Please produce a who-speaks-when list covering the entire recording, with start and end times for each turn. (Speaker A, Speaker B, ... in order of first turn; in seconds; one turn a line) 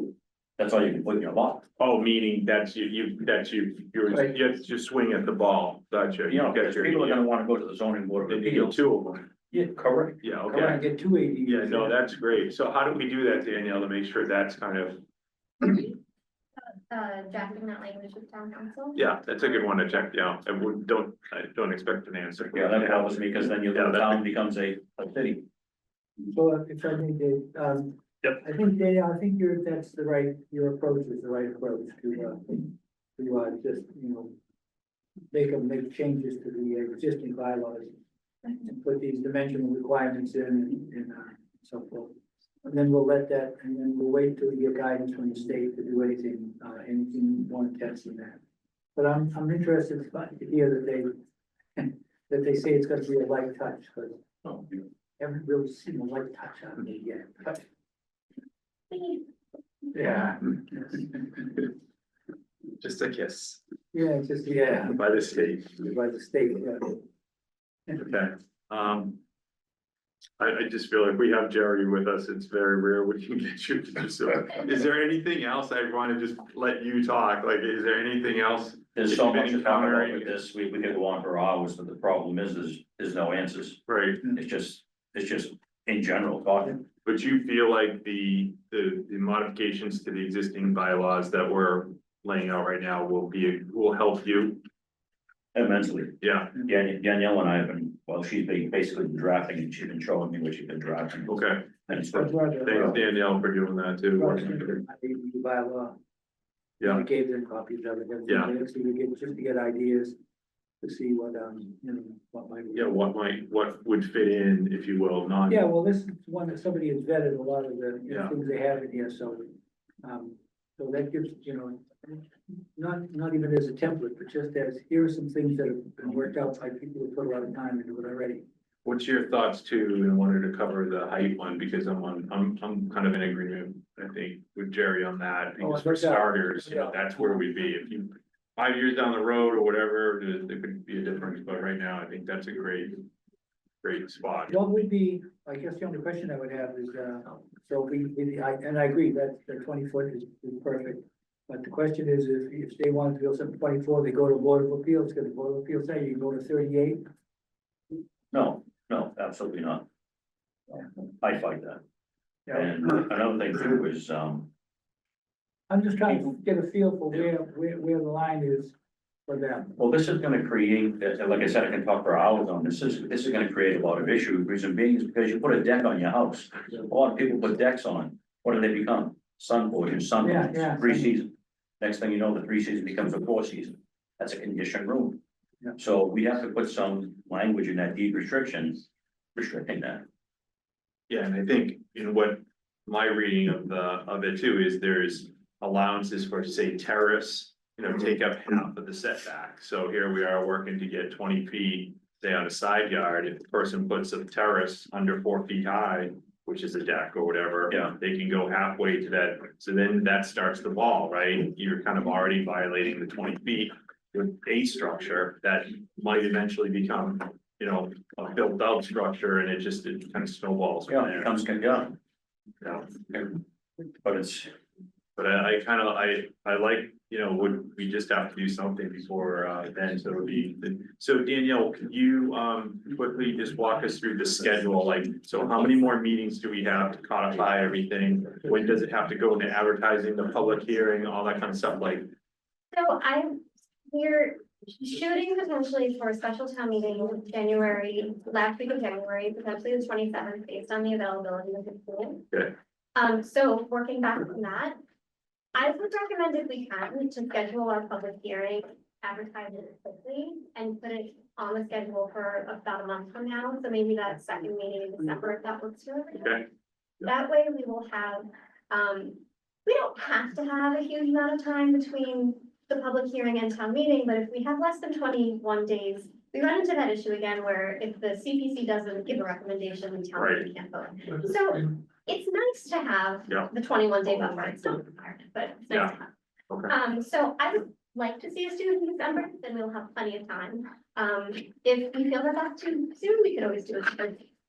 Speaker A: 0.6-1.7
Speaker B: 1.8-7.2
Speaker A: 6.3-8.9
Speaker B: 8.3-9.3
Speaker A: 9.5-10.8
Speaker B: 10.2-10.8
Speaker C: 10.5-12.0
Speaker B: 11.5-15.0
Speaker D: 15.6-15.9
Speaker D: 16.6-19.6
Speaker B: 18.9-24.2
Speaker A: 22.5-25.4
Speaker C: 26.3-34.4
Speaker C: 35.3-38.0
Speaker C: 38.5-42.1
Speaker C: 42.6-48.4
Speaker C: 49.0-51.1
Speaker C: 51.8-57.7
Speaker D: 58.9-59.2
Speaker C: 59.9-61.5
Speaker B: 62.8-63.6
Speaker C: 63.9-65.0
Speaker B: 65.0-65.8
Speaker C: 65.7-67.0
Speaker B: 68.0-69.2
Speaker B: 70.4-80.4
Speaker A: 79.0-86.8
Speaker B: 83.9-84.3
Speaker B: 87.0-94.6
Speaker A: 95.5-102.9
Speaker B: 96.2-96.6
Speaker B: 101.3-101.8
Speaker C: 101.9-103.1
Speaker B: 102.7-104.8
Speaker C: 104.2-106.0
Speaker C: 106.8-110.2
Speaker C: 110.8-113.0
Speaker B: 112.7-115.6
Speaker C: 115.5-128.4
Speaker B: 128.8-143.1
Speaker C: 135.6-137.4
Speaker B: 143.8-144.5
Speaker C: 144.5-157.1
Speaker A: 158.3-159.9
Speaker A: 160.7-161.8
Speaker C: 162.5-162.7
Speaker A: 162.5-164.5
Speaker C: 165.7-168.8
Speaker C: 169.3-169.8
Speaker A: 169.8-185.2
Speaker C: 180.2-181.1
Speaker A: 185.8-188.8
Speaker A: 189.4-190.1
Speaker B: 191.1-221.2
Speaker A: 220.9-222.0
Speaker B: 222.6-222.9
Speaker A: 223.1-223.4
Speaker A: 224.0-224.5
Speaker B: 225.2-242.1
Speaker D: 242.7-252.3
Speaker D: 252.9-254.8
Speaker D: 255.6-266.5
Speaker D: 267.0-286.1
Speaker B: 280.2-280.5
Speaker D: 286.7-294.3